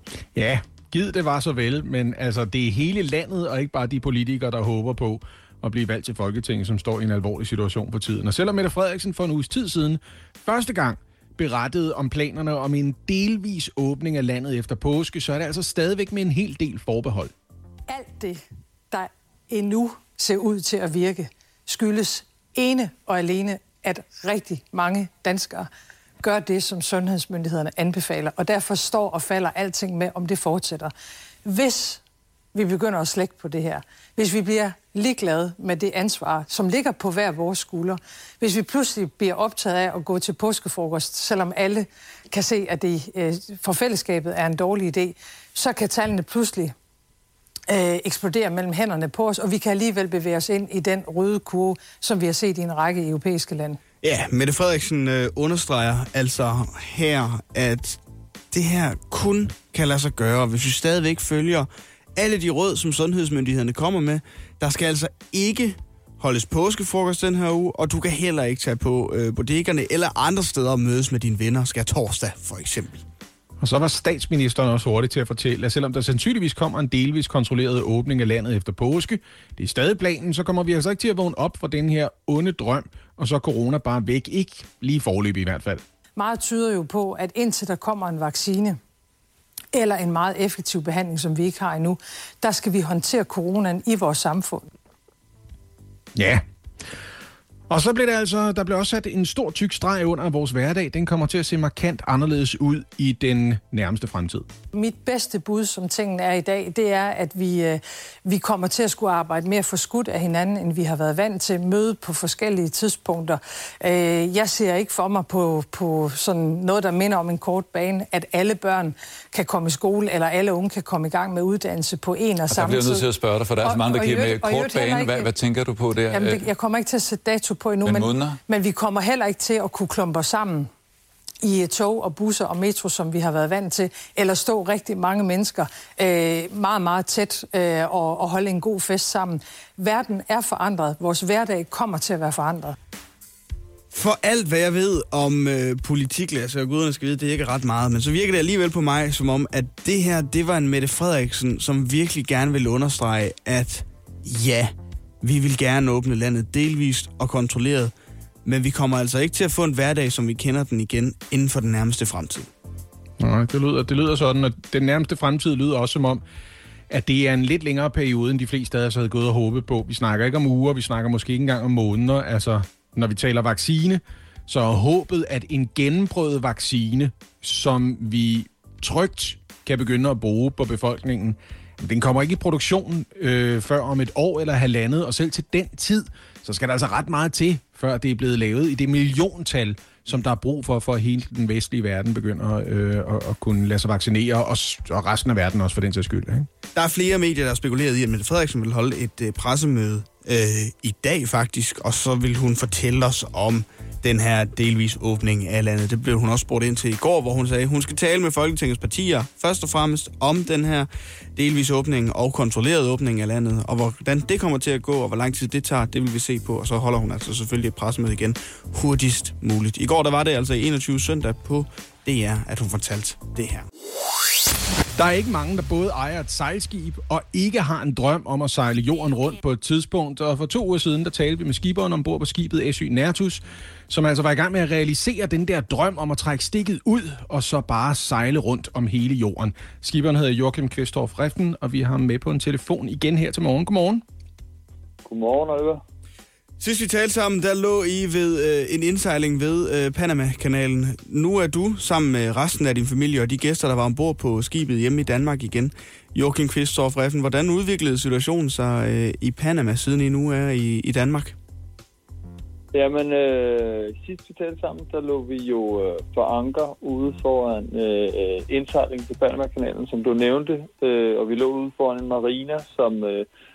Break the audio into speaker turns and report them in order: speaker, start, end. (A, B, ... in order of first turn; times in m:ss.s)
0:00.3-0:17.3 A
0:17.9-0:25.7 B
0:26.2-0:30.9 B
0:31.4-0:32.0 B
0:32.5-0:46.7 B
0:47.7-0:53.8 B
0:54.0-0:58.0 C
0:58.5-1:13.0 C
1:13.6-1:25.8 A
1:26.2-1:28.8 B
1:29.7-1:34.7 B
1:36.1-1:36.4 A
1:37.7-1:44.4 A
1:44.7-2:05.4 B
2:02.5-2:06.5 D
2:06.1-2:10.7 B
2:07.8-2:08.4 D
2:11.4-2:22.8 B
2:23.9-2:37.9 C
2:38.4-2:42.5 C
2:43.2-2:46.2 A
2:46.9-3:16.5 A
3:16.7-3:43.6 C
3:45.0-4:04.0 A
4:05.0-4:05.8 E
4:06.6-4:21.4 C
4:22.7-4:33.2 E